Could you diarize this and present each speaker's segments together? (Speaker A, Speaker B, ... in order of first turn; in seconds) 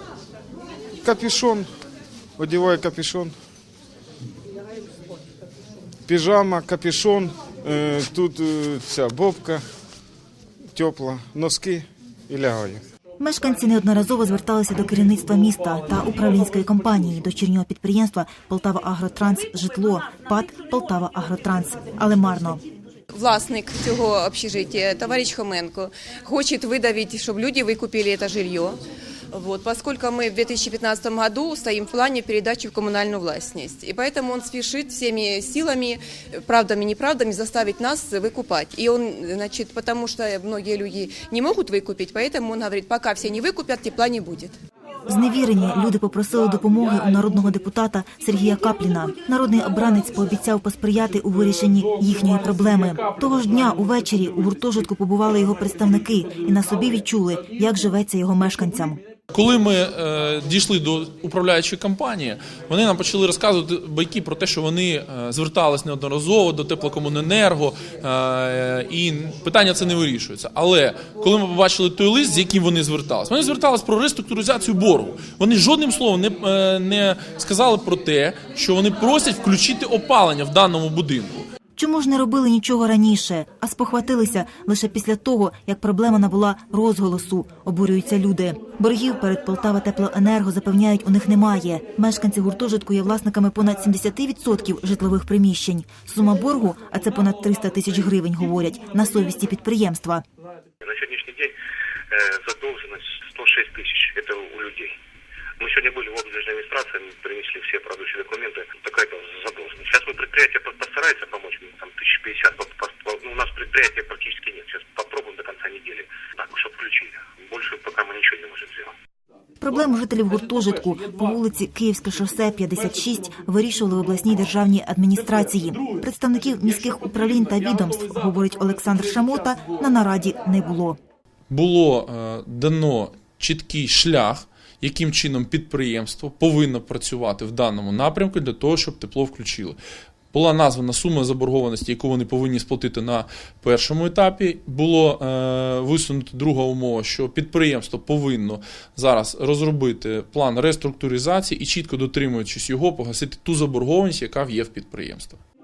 Speaker A: 1.0-1.7, 2.4-3.3, 6.1-9.6, 10.7-12.8
Speaker B: 13.2-22.6, 45.1-59.0, 81.8-100.2, 119.6-131.0
Speaker C: 23.1-28.8, 29.3-44.6
Speaker D: 59.3-81.5, 125.6-126.0, 127.4-128.2, 131.5-139.8, 140.3-155.4
Speaker E: 100.8-101.5, 102.1-104.9, 105.6-118.9